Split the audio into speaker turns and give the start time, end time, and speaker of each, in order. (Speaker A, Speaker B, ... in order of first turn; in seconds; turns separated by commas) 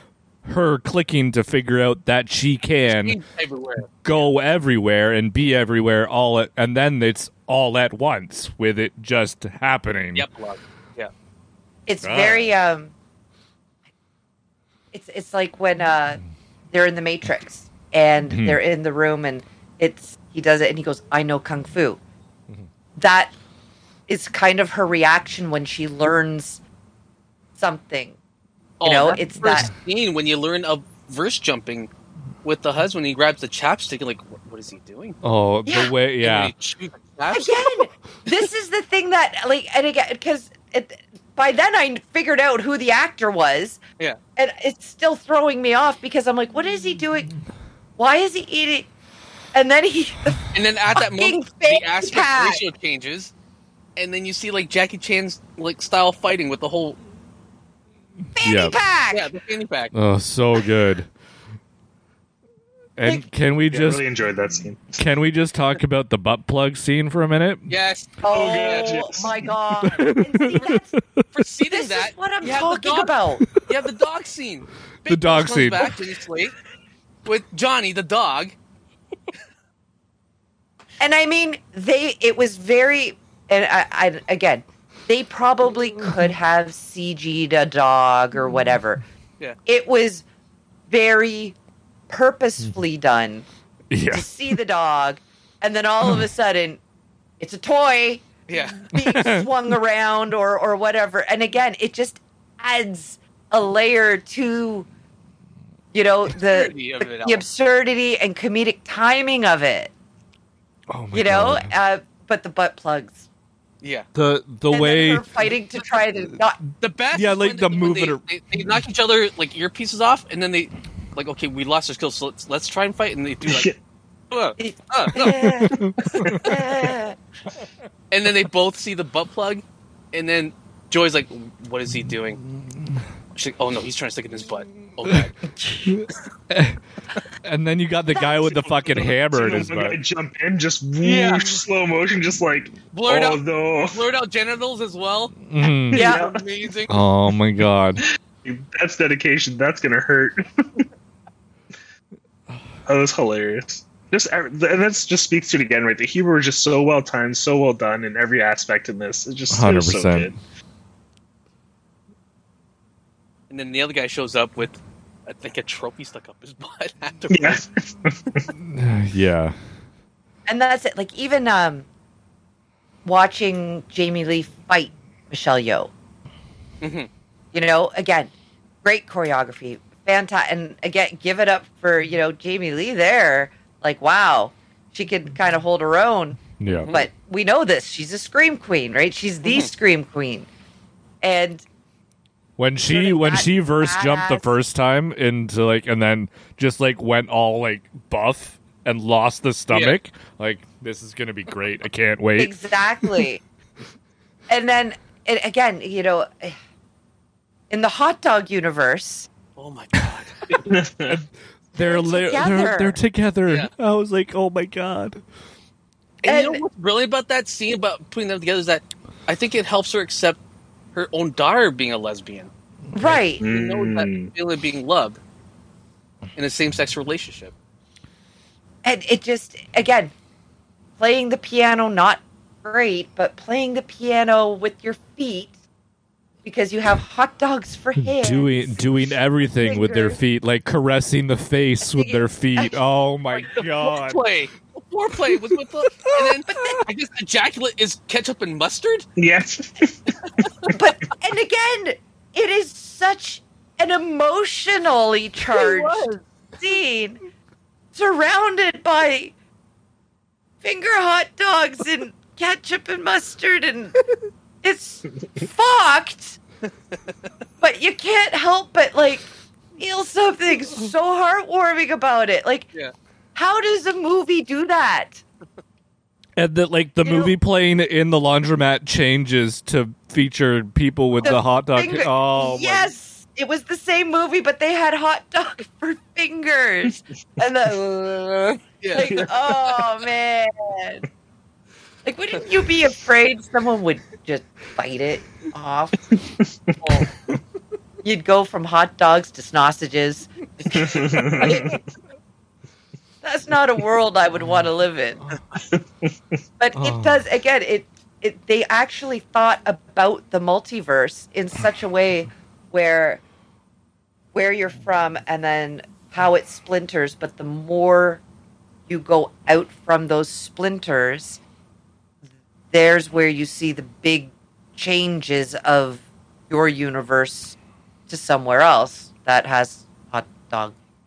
Speaker A: 0.4-3.2, Speaker B: 2.8-4.3, Speaker A: 4.0-10.2, Speaker B: 10.1-11.1, Speaker C: 11.9-12.9, Speaker A: 12.0-12.5, Speaker C: 14.9-22.0, Speaker A: 18.3-18.6, Speaker C: 23.0-23.3, Speaker C: 24.1-26.6, Speaker C: 27.6-28.2, Speaker B: 28.8-31.9, Speaker C: 28.8-29.7, Speaker B: 32.4-35.2, Speaker A: 35.2-36.5, Speaker C: 35.6-35.9, Speaker B: 36.2-37.6, Speaker C: 37.3-43.8, Speaker C: 44.4-47.3, Speaker C: 48.0-48.9, Speaker C: 49.5-52.6, Speaker B: 50.5-53.3, Speaker B: 54.0-57.0, Speaker C: 58.4-59.3, Speaker A: 58.4-58.7, Speaker B: 59.1-59.9, Speaker A: 59.9-61.1, Speaker A: 63.0-64.0, Speaker D: 63.7-65.0, Speaker A: 65.0-67.7, Speaker B: 67.7-68.9, Speaker C: 68.2-70.9, Speaker D: 68.3-69.4, Speaker A: 69.8-71.2, Speaker B: 71.3-76.5, Speaker C: 71.7-73.5, Speaker A: 75.1-76.0, Speaker B: 77.2-78.5, Speaker C: 81.0-89.0, Speaker C: 89.7-90.2, Speaker C: 90.9-91.5, Speaker C: 92.1-93.5, Speaker A: 93.9-94.3, Speaker C: 94.1-96.8, Speaker C: 97.4-98.2, Speaker B: 98.5-98.8, Speaker C: 98.8-104.9, Speaker A: 98.9-99.5, Speaker C: 105.9-109.9, Speaker B: 106.4-107.4, Speaker A: 110.9-111.7, Speaker C: 111.1-113.2, Speaker B: 113.8-114.1, Speaker A: 114.1-115.2, Speaker C: 114.7-116.6, Speaker B: 116.8-123.7, Speaker A: 117.1-118.2, Speaker D: 123.5-123.7, Speaker B: 124.3-125.3, Speaker C: 124.6-127.2, Speaker A: 125.2-126.4, Speaker D: 126.2-126.9, Speaker B: 128.1-132.4, Speaker B: 133.3-135.4, Speaker A: 135.9-136.8, Speaker A: 137.4-140.0, Speaker C: 138.1-138.7, Speaker D: 138.9-144.0, Speaker B: 141.0-141.6, Speaker B: 142.9-145.4, Speaker A: 145.5-146.1, Speaker B: 145.9-147.0, Speaker C: 145.9-146.2, Speaker D: 145.9-146.4, Speaker A: 146.9-148.0, Speaker D: 148.4-150.8, Speaker D: 152.8-160.4, Speaker A: 159.5-160.3, Speaker B: 163.5-167.6, Speaker D: 167.3-168.4, Speaker A: 168.6-169.5, Speaker C: 170.5-171.8, Speaker C: 173.0-175.9, Speaker B: 176.8-177.1, Speaker C: 177.5-178.3, Speaker C: 178.8-190.5, Speaker A: 186.6-186.9, Speaker B: 186.7-187.1, Speaker B: 189.4-189.7, Speaker C: 191.2-191.6, Speaker A: 192.6-202.5, Speaker C: 192.8-194.5, Speaker B: 199.7-200.0, Speaker C: 202.4-203.4, Speaker C: 204.5-206.6, Speaker C: 207.7-209.3, Speaker B: 209.6-210.7, Speaker D: 210.6-211.2, Speaker A: 211.1-215.2, Speaker C: 211.8-213.0, Speaker B: 216.2-220.4, Speaker C: 216.2-216.6, Speaker B: 220.9-225.2, Speaker C: 222.9-223.4, Speaker D: 223.4-224.3, Speaker B: 226.3-227.5, Speaker C: 228.8-230.1, Speaker C: 231.0-235.5, Speaker C: 236.4-240.2, Speaker A: 238.2-244.2, Speaker C: 241.9-242.8, Speaker B: 243.3-249.0, Speaker C: 246.5-246.8, Speaker D: 249.2-250.1, Speaker B: 250.2-250.5, Speaker C: 250.7-256.1, Speaker B: 255.5-256.2, Speaker C: 256.6-257.2, Speaker C: 257.9-259.3, Speaker C: 260.6-264.0, Speaker C: 264.6-266.4, Speaker B: 266.7-267.2, Speaker C: 267.6-272.7, Speaker C: 273.3-275.2, Speaker A: 276.4-282.9, Speaker C: 277.0-277.3, Speaker C: 281.2-291.1, Speaker B: 288.6-289.8, Speaker C: 292.0-296.1, Speaker D: 296.1-296.7, Speaker B: 296.8-297.1, Speaker C: 298.0-301.8, Speaker D: 300.7-301.8, Speaker C: 303.2-305.3, Speaker D: 305.5-306.1, Speaker C: 306.6-313.2, Speaker A: 306.8-307.2, Speaker C: 314.3-318.2, Speaker C: 318.9-321.4, Speaker C: 322.7-327.6, Speaker C: 328.1-330.7